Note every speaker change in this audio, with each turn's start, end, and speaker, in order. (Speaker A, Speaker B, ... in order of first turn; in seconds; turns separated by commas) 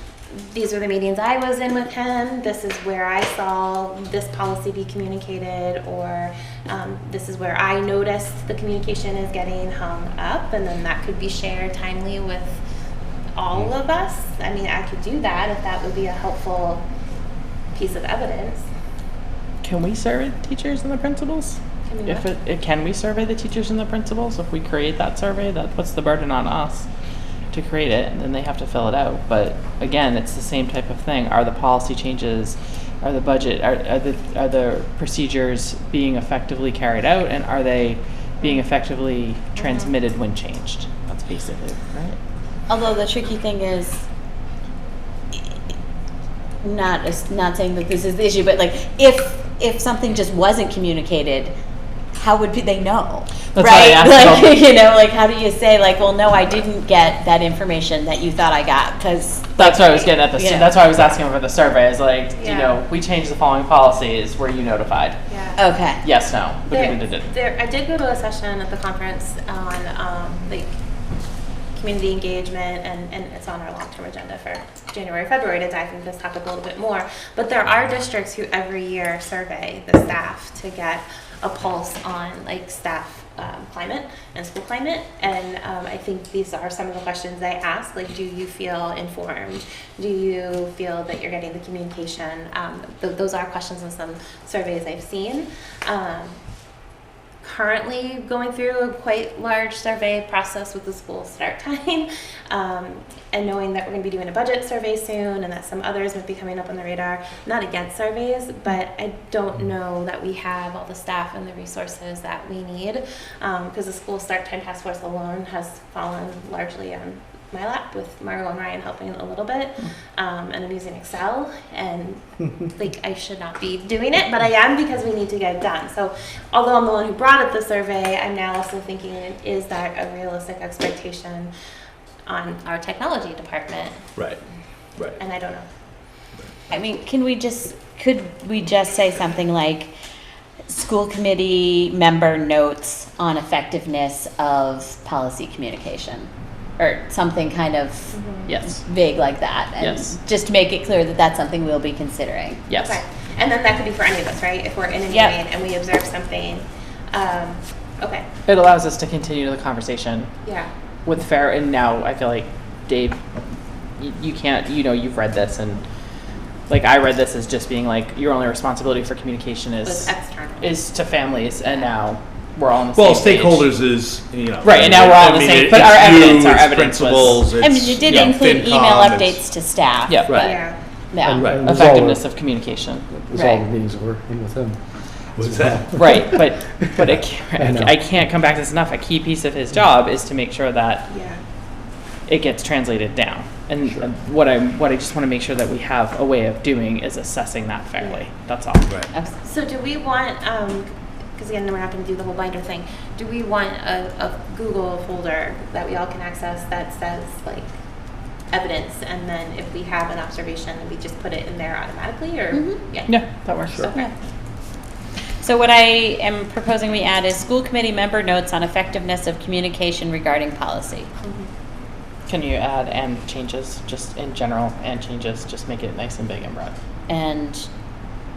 Speaker A: 0.3-12.6, Speaker A: 13.4-16.8, Speaker A: 17.7-18.7, Speaker B: 19.6-26.9, Speaker A: 21.9-22.3, Speaker B: 27.5-42.2, Speaker C: 42.7-44.0, Speaker C: 46.6-51.5, Speaker C: 52.1-60.8, Speaker B: 53.5-54.6, Speaker B: 59.6-65.2, Speaker A: 62.4-62.8, Speaker A: 65.3-65.6, Speaker C: 65.6-66.0, Speaker B: 66.0-67.3, Speaker A: 66.7-70.8, Speaker A: 71.8-96.4, Speaker A: 97.4-131.5, Speaker A: 132.3-134.0, Speaker A: 135.2-135.7, Speaker C: 136.7-139.9, Speaker C: 140.7-148.1, Speaker A: 148.1-148.5, Speaker B: 148.5-148.8, Speaker C: 148.7-152.6, Speaker B: 149.8-150.2, Speaker B: 152.7-153.0, Speaker A: 152.7-158.3, Speaker C: 155.1-155.4, Speaker B: 158.5-160.3, Speaker A: 160.4-160.7, Speaker B: 161.1-163.2, Speaker B: 164.0-165.8, Speaker B: 166.7-173.7, Speaker A: 169.8-170.7, Speaker D: 173.0-179.4, Speaker B: 174.6-177.5, Speaker C: 177.6-180.6, Speaker B: 180.1-180.4, Speaker D: 180.2-180.5, Speaker A: 180.4-180.8, Speaker C: 181.1-181.5, Speaker E: 181.2-182.2, Speaker D: 181.3-181.8, Speaker B: 181.5-183.1, Speaker E: 183.1-184.8, Speaker C: 183.3-183.7, Speaker D: 185.4-186.1, Speaker E: 185.4-187.0, Speaker B: 185.9-191.1, Speaker E: 187.6-188.0, Speaker A: 191.1-191.4, Speaker B: 192.3-198.9, Speaker A: 199.4-207.7, Speaker A: 208.5-213.1, Speaker C: 212.5-212.8, Speaker B: 213.1-214.1, Speaker C: 215.4-221.1, Speaker B: 222.3-226.8, Speaker C: 227.1-227.7